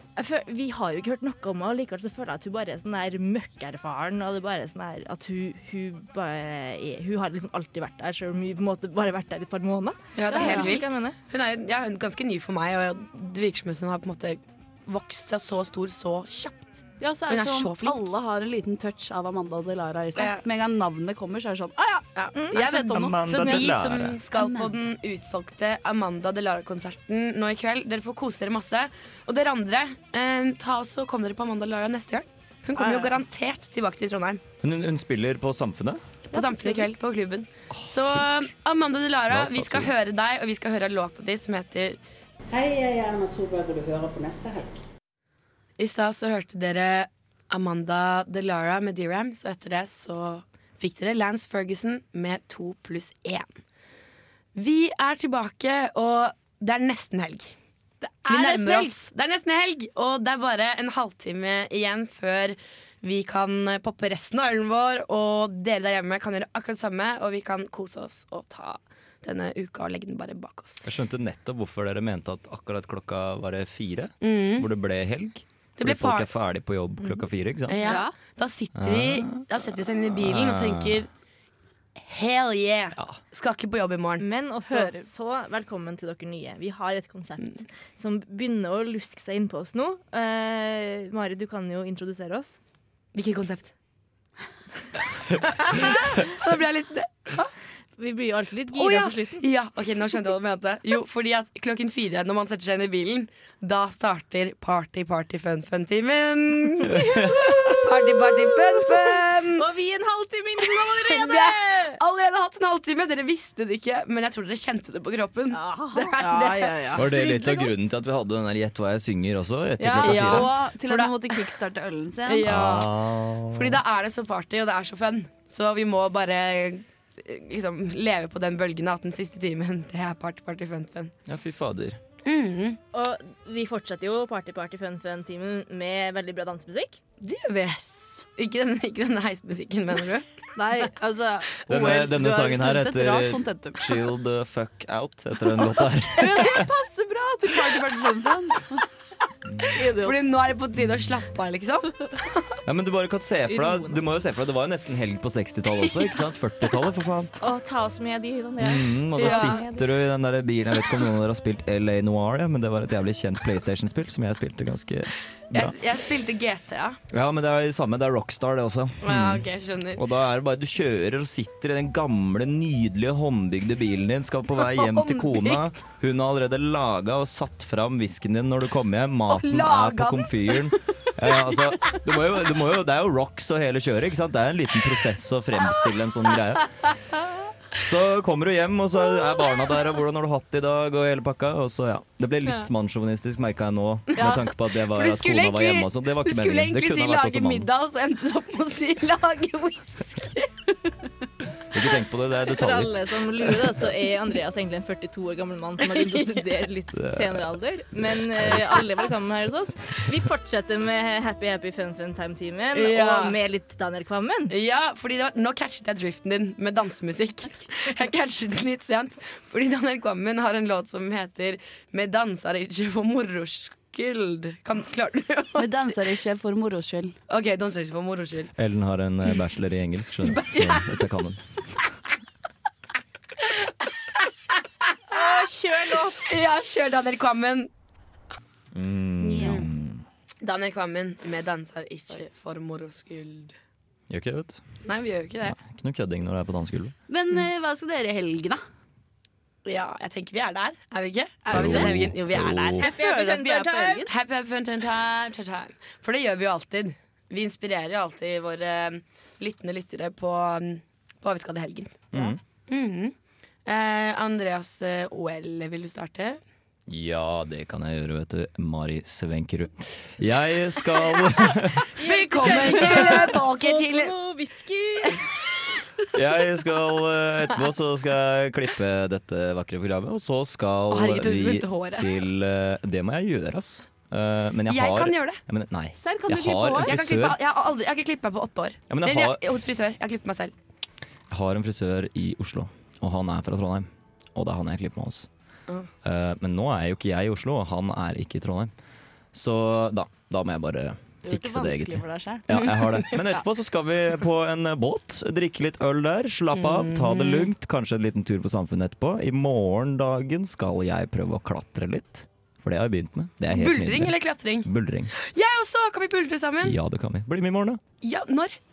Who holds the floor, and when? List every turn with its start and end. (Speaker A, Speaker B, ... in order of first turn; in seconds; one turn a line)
Speaker A: 0.1-11.2
Speaker B: 10.2-18.1
Speaker C: 10.3-10.8
Speaker C: 17.0-23.6
Speaker B: 20.1-20.4
Speaker B: 22.1-34.4
Speaker D: 22.6-24.2
Speaker C: 24.3-24.7
Speaker C: 32.8-33.1
Speaker D: 34.6-36.0
Speaker B: 36.3-42.0
Speaker C: 36.3-36.9
Speaker D: 37.7-38.5
Speaker D: 39.3-39.9
Speaker E: 42.5-44.8
Speaker B: 45.8-53.5
Speaker B: 54.5-57.5
Speaker C: 58.0-58.9
Speaker B: 58.3-70.8
Speaker D: 70.8-78.0
Speaker B: 74.2-74.7
Speaker B: 75.8-76.3
Speaker B: 77.7-81.1
Speaker C: 77.8-78.1
Speaker D: 78.8-79.5
Speaker D: 80.1-81.0
Speaker B: 82.0-84.2
Speaker A: 84.2-92.6
Speaker C: 84.7-85.0
Speaker B: 93.1-93.7
Speaker B: 95.4-97.5
Speaker A: 98.0-99.5
Speaker B: 98.7-109.6
Speaker D: 106.8-107.8
Speaker A: 109.1-112.0
Speaker B: 110.6-117.3
Speaker A: 115.5-116.2
Speaker C: 116.2-117.2
Speaker D: 116.9-120.6
Speaker A: 117.2-117.7
Speaker C: 119.8-122.5
Speaker B: 120.0-121.4
Speaker B: 122.2-122.9
Speaker D: 122.4-123.8
Speaker B: 123.5-131.1
Speaker D: 131.3-132.0
Speaker B: 132.2-132.8
Speaker A: 132.9-137.0
Speaker B: 137.2-140.4
Speaker C: 140.6-144.0
Speaker D: 141.7-146.7
Speaker C: 146.1-148.9
Speaker D: 149.5-149.8
Speaker C: 149.7-150.2
Speaker B: 150.0-152.6
Speaker D: 152.7-157.3
Speaker A: 153.5-154.0
Speaker A: 157.4-159.9
Speaker D: 158.6-165.8
Speaker B: 159.2-159.6
Speaker B: 165.5-167.0
Speaker D: 167.1-186.9
Speaker B: 169.0-170.0
Speaker B: 174.6-175.8
Speaker B: 179.3-180.6
Speaker D: 187.8-197.7
Speaker B: 194.2-200.5
Speaker D: 201.7-202.9
Speaker A: 202.5-214.5
Speaker D: 206.9-208.9
Speaker B: 212.7-213.3
Speaker B: 214.5-226.0
Speaker C: 225.6-227.1
Speaker B: 227.3-228.5
Speaker D: 228.6-231.4
Speaker B: 230.4-230.8
Speaker A: 235.1-236.3
Speaker B: 235.1-235.4
Speaker B: 236.2-237.7
Speaker D: 238.7-240.0
Speaker B: 239.4-239.7
Speaker B: 240.4-243.5
Speaker D: 244.1-244.6
Speaker B: 244.8-245.6
Speaker D: 245.4-246.9
Speaker C: 247.1-248.6
Speaker B: 249.6-252.8
Speaker C: 251.4-252.2
Speaker D: 251.5-252.8
Speaker C: 252.8-254.1
Speaker A: 252.8-254.0
Speaker B: 254.1-262.2
Speaker D: 262.1-262.4
Speaker B: 262.7-263.1
Speaker B: 263.6-266.4
Speaker D: 266.9-271.9
Speaker B: 271.9-274.1
Speaker A: 272.0-275.3
Speaker D: 272.6-273.0
Speaker D: 276.1-287.4
Speaker B: 280.9-282.1
Speaker B: 284.7-285.4
Speaker C: 286.0-287.0
Speaker B: 286.8-290.5
Speaker D: 288.9-289.4
Speaker D: 291.3-295.3
Speaker D: 296.0-298.7
Speaker D: 299.3-315.1
Speaker C: 301.2-303.4
Speaker B: 302.5-303.1
Speaker B: 306.5-307.5
Speaker B: 313.5-316.8
Speaker D: 316.6-317.8
Speaker B: 318.0-318.6